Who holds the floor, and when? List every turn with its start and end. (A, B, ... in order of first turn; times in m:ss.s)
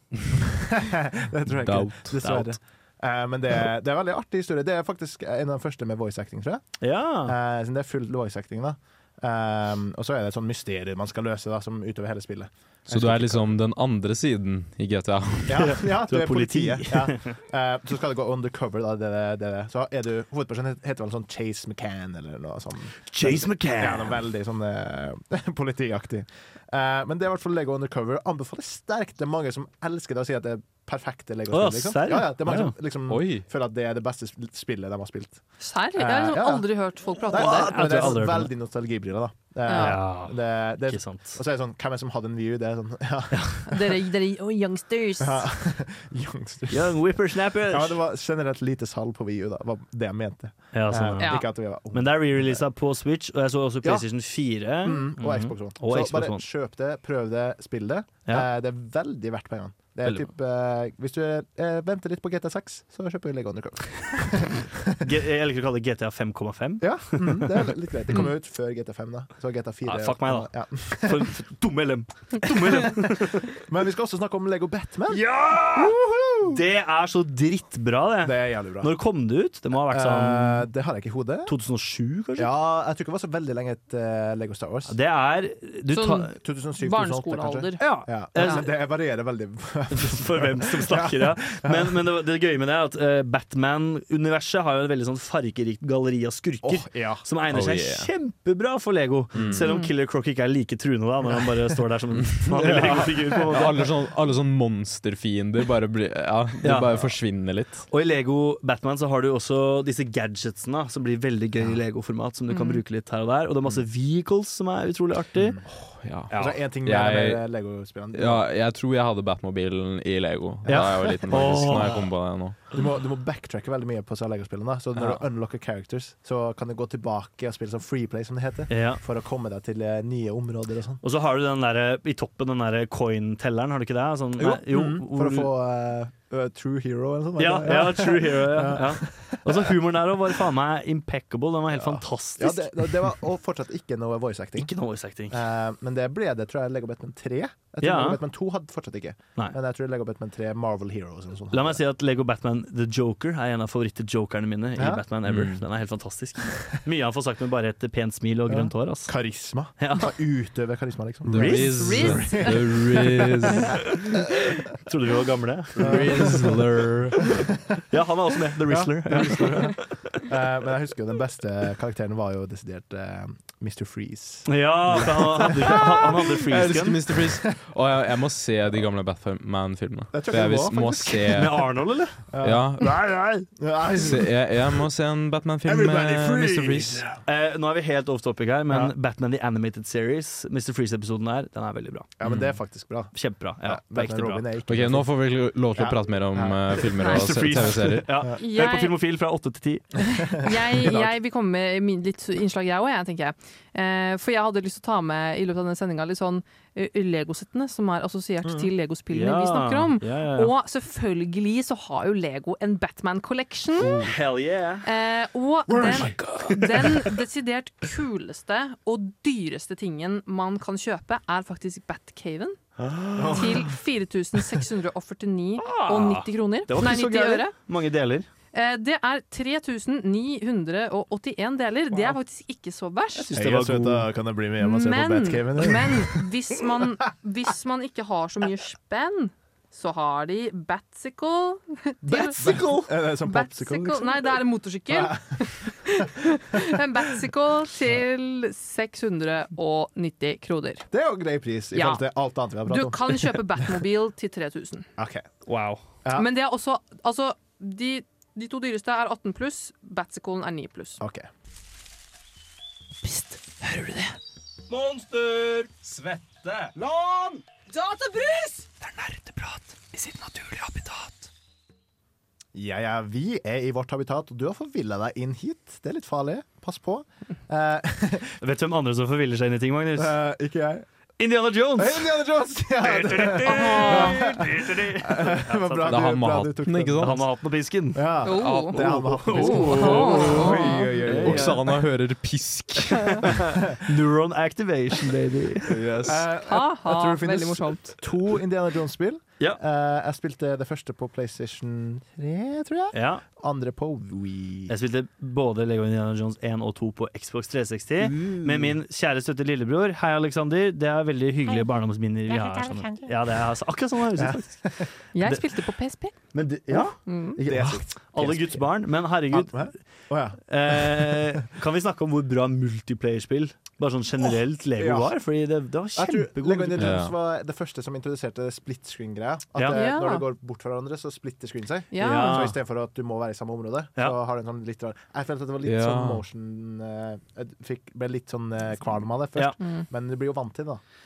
0:00.6-0:06.6 A
0:01.6-0:02.2 B
0:02.2-0:02.5 C
0:06.8-0:07.4 C
0:07.2-0:13.6 A
0:12.9-0:15.7 B
0:15.5-0:35.4 A
0:15.6-0:17.4 C
0:23.1-0:24.2 C
0:31.5-0:32.7 C
0:33.1-0:33.4 B
0:35.6-0:37.8 D
0:36.0-0:44.0 A
0:37.3-0:38.5 C
0:39.7-0:40.0 D
0:39.7-0:41.4 C
0:43.7-0:45.5 D
0:45.2-0:52.7 A
0:46.7-0:48.0 C
0:50.7-0:56.4 C
0:51.2-0:51.5 D
0:54.8-1:05.0 A
1:05.0-1:07.5 C
1:06.8-1:11.3 A
1:09.9-1:13.6 C
1:12.7-1:16.6 A
1:15.1-1:20.6 C
1:18.2-1:19.0 A
1:19.8-1:21.5 A
1:21.5-1:22.5 C
1:22.4-1:25.0 A
1:24.9-1:26.3 C
1:25.9-1:28.6 D
1:26.4-1:32.0 A
1:27.8-1:28.7 C
1:29.9-1:43.9 C
1:36.6-1:37.2 A
1:37.5-1:38.1 B
1:39.4-1:39.6 B
1:39.6-1:39.9 D
1:42.3-1:47.9 B
1:46.6-1:47.1 C
1:47.9-1:55.6 C
1:52.5-1:52.8 D
1:55.7-1:57.5 B
1:56.3-1:56.6 C
1:56.3-1:58.5 A
1:58.1-2:02.6 B
2:00.6-2:02.0 A
2:00.7-2:02.2 C
2:02.7-2:11.0 A
2:08.7-2:09.0 C
2:11.0-2:15.5 C
2:14.4-2:19.8 A
2:17.4-2:23.1 C
2:21.7-2:24.7 A
2:24.6-2:25.4 C
2:25.3-2:31.8 A
2:27.8-2:28.2 C
2:31.5-2:39.2 C
2:34.8-2:35.0 A
2:35.3-2:35.6 B
2:38.5-2:42.8 A
2:39.8-2:40.2 C
2:41.3-2:43.8 B
2:41.3-2:42.4 C
2:41.7-2:42.6 D
2:43.8-2:44.2 C
2:44.8-2:46.5 C
2:45.8-2:47.3 B
2:45.8-2:46.4 A
2:47.9-2:49.9 C
2:48.7-2:56.3 A
2:54.5-2:57.0 C
2:56.5-3:01.8 B
3:00.1-3:01.5 A
3:01.3-3:02.2 C
3:02.3-3:02.9 A
3:02.4-3:03.4 B
3:03.5-3:04.4 A
3:04.0-3:07.1 B
3:05.6-3:07.2 A
3:07.2-3:12.1 C
3:12.2-3:15.1 A
3:13.1-3:14.5 C
3:14.7-3:18.1 B
3:15.8-3:17.5 A
3:17.0-3:20.0 C
3:18.4-3:19.0 D
3:20.3-3:34.0 D
3:20.6-3:21.1 A
3:29.1-3:30.6 C
3:33.8-3:34.1 A
3:33.9-3:34.9 C
3:34.8-3:42.6 D
3:36.0-3:36.8 C
3:42.8-3:43.7 C
3:43.2-3:43.6 A
3:43.3-3:47.5 D
3:45.6-3:48.3 C
3:48.5-3:53.3 D
3:53.2-3:54.1 C
3:53.3-3:56.3 A
3:54.6-4:02.5 D
4:02.0-4:06.1 A
4:02.3-4:02.9 C
4:03.0-4:10.9 D
4:10.9-4:13.7 A
4:11.7-4:12.0 D
4:12.7-4:14.9 D
4:15.0-4:15.3 A
4:15.5-4:15.8 C
4:16.1-4:21.0 D
4:21.0-4:21.3 A
4:23.0-4:23.4 D
4:24.7-4:25.7 C
4:25.8-4:26.7 B
4:26.8-4:27.4 C
4:28.8-4:31.1 C
4:32.5-4:38.4 A
4:38.4-4:40.2 C
4:40.0-4:40.9 A
4:41.2-4:42.2 C
4:41.8-4:47.2 A
4:42.8-4:46.1 C
4:43.5-4:44.2 D
4:45.9-4:47.3 B
4:47.0-4:51.8 C
4:47.9-4:51.6 A
4:48.2-4:48.8 D
4:49.3-4:53.4 B
4:49.3-4:50.9 D
4:53.2-4:55.8 C
4:55.7-4:56.2 B
4:56.0-5:04.7 A
4:56.5-4:58.0 D
5:02.9-5:03.2 C
5:04.7-5:15.4 C
5:08.0-5:08.6 A
5:14.2-5:14.9 A
5:15.1-5:16.3 D
5:16.3-5:19.7 C
5:16.7-5:18.8 A
5:17.1-5:17.4 D
5:19.3-5:21.3 A
5:20.5-5:27.0 C
5:24.2-5:25.2 A
5:25.9-5:40.8 A
5:26.8-5:27.1 B
5:29.6-5:29.8 C
5:29.7-5:30.2 D
5:31.9-5:32.5 D
5:32.0-5:32.6 C
5:35.6-5:36.2 B
5:39.6-5:39.9 D